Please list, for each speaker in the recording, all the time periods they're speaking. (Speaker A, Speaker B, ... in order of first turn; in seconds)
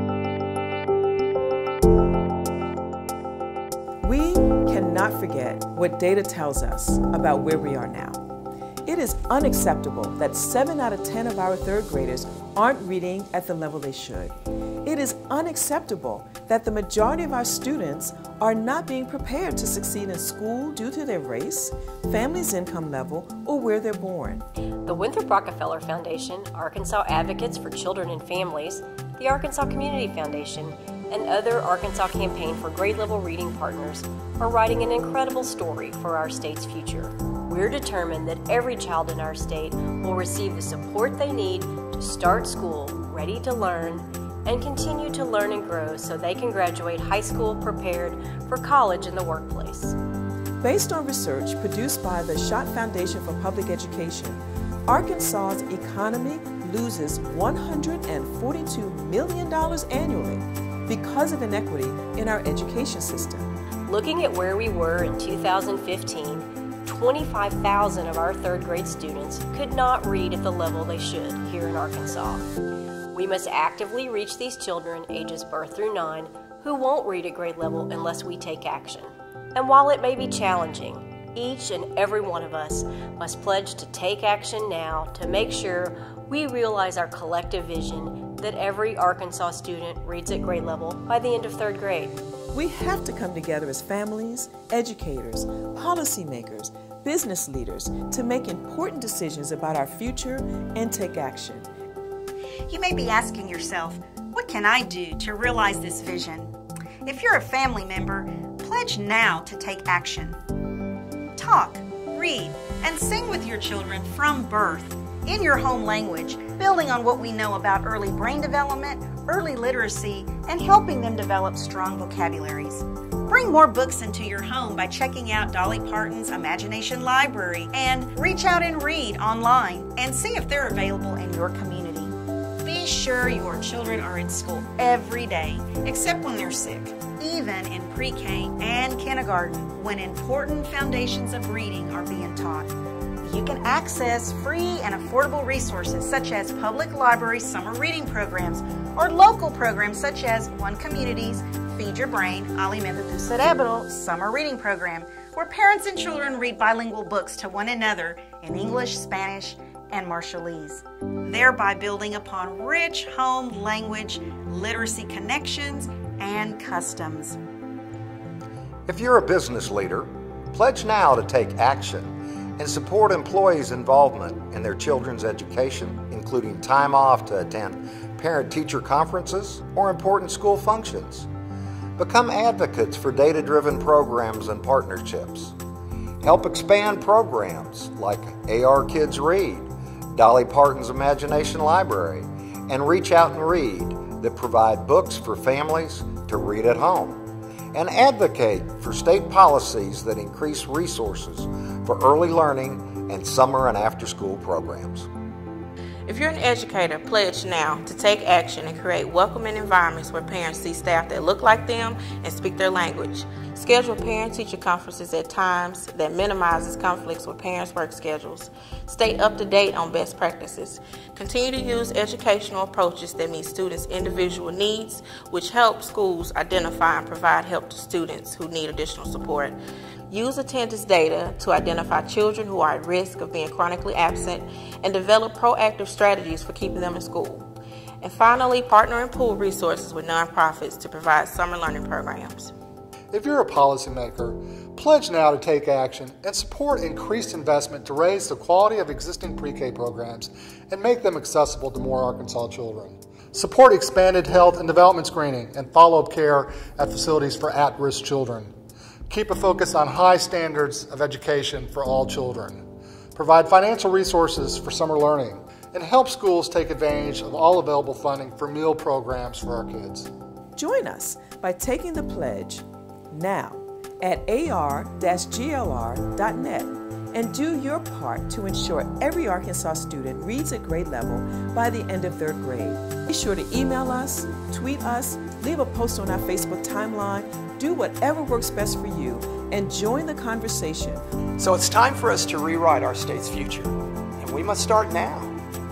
Speaker A: 4.0-8.2, 8.9-14.3, 14.8-24.4, 50.6-63.5, 92.5-101.7, 270.6-291.0
Speaker B: 24.9-50.0, 63.9-72.5, 73.1-92.2
Speaker C: 102.7-106.5, 107.0-110.4, 111.4-167.4
Speaker D: 168.9-181.3, 182.0-185.5, 186.2-197.2, 197.7-205.1
Speaker E: 206.1-229.6, 230.1-237.4, 238.0-242.5
Speaker F: 243.1-258.5, 259.1-262.6, 263.1-270.1
Speaker G: 291.4-295.4